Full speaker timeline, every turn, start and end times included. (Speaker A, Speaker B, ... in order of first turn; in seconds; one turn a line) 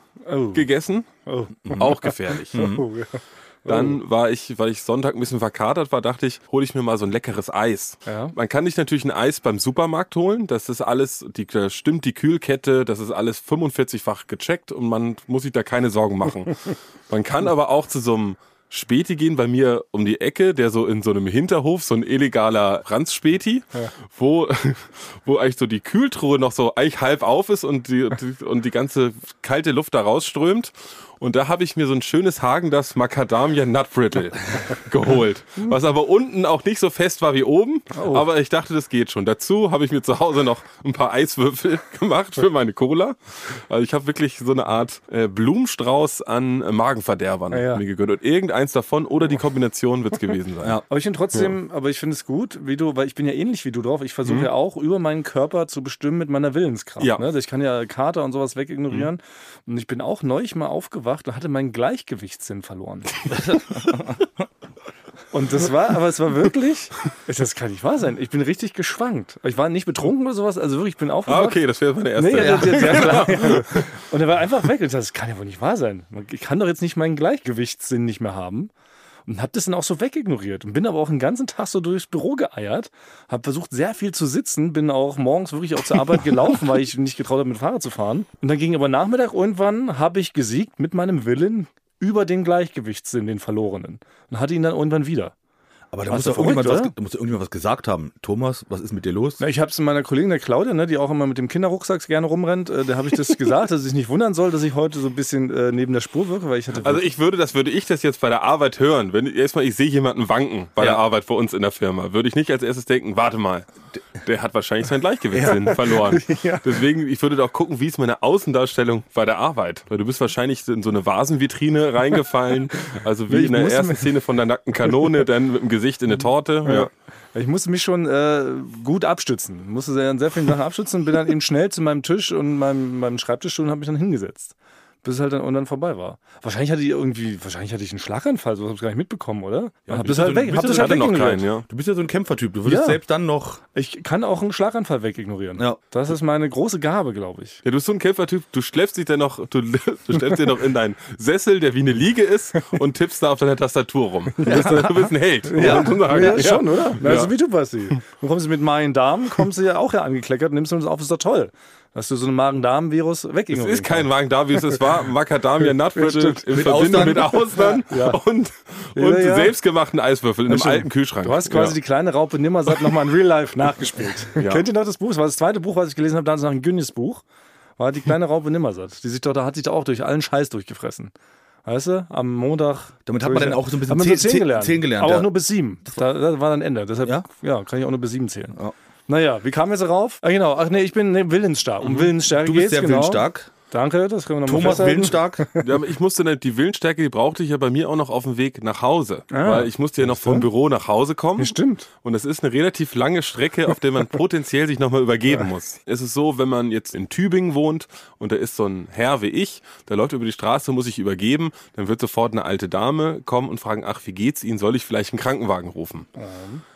Speaker A: 0.2-0.7
Speaker B: 0.5-1.1
Speaker A: 1.2-4.0
Speaker B: 1.7-2.6
Speaker C: 2.5-2.9
Speaker B: 3.7-50.8
Speaker A: 8.1-8.3
Speaker A: 37.9-38.3
Speaker A: 47.5-47.8
Speaker A: 50.9-63.5
Speaker C: 63.3-64.2
Speaker A: 65.3-71.6
Speaker B: 71.3-73.9
Speaker A: 72.1-78.7
Speaker C: 72.3-73.4
Speaker A: 79.2-95.3
Speaker C: 95.9-99.4
Speaker A: 96.1-96.9
Speaker A: 99.4-107.1
Speaker B: 106.8-113.7
Speaker C: 110.8-111.0
Speaker B: 114.2-126.9
Speaker A: 115.3-116.8
Speaker A: 123.3-124.1
Speaker A: 126.6-141.4
Speaker C: 139.9-143.6
Speaker B: 140.6-141.6
Speaker A: 142.6-143.0
Speaker A: 143.7-147.6
Speaker B: 147.6-157.3
Speaker A: 154.4-154.9
Speaker C: 154.4-154.9
Speaker A: 155.4-164.1
Speaker C: 155.6-156.4
Speaker B: 163.5-171.8
Speaker A: 165.9-168.2
Speaker C: 166.5-167.6
Speaker A: 168.9-169.5
Speaker C: 170.5-170.9
Speaker A: 171.2-177.2
Speaker B: 174.3-174.6
Speaker A: 177.8-181.1
Speaker A: 181.6-188.6
Speaker C: 183.1-185.3
Speaker A: 189.1-195.6
Speaker B: 191.8-192.1
Speaker C: 192.3-193.5
Speaker C: 194.4-195.5
Speaker B: 195.6-216.1
Speaker A: 199.3-200.5
Speaker A: 201.4-201.9
Speaker A: 216.2-216.6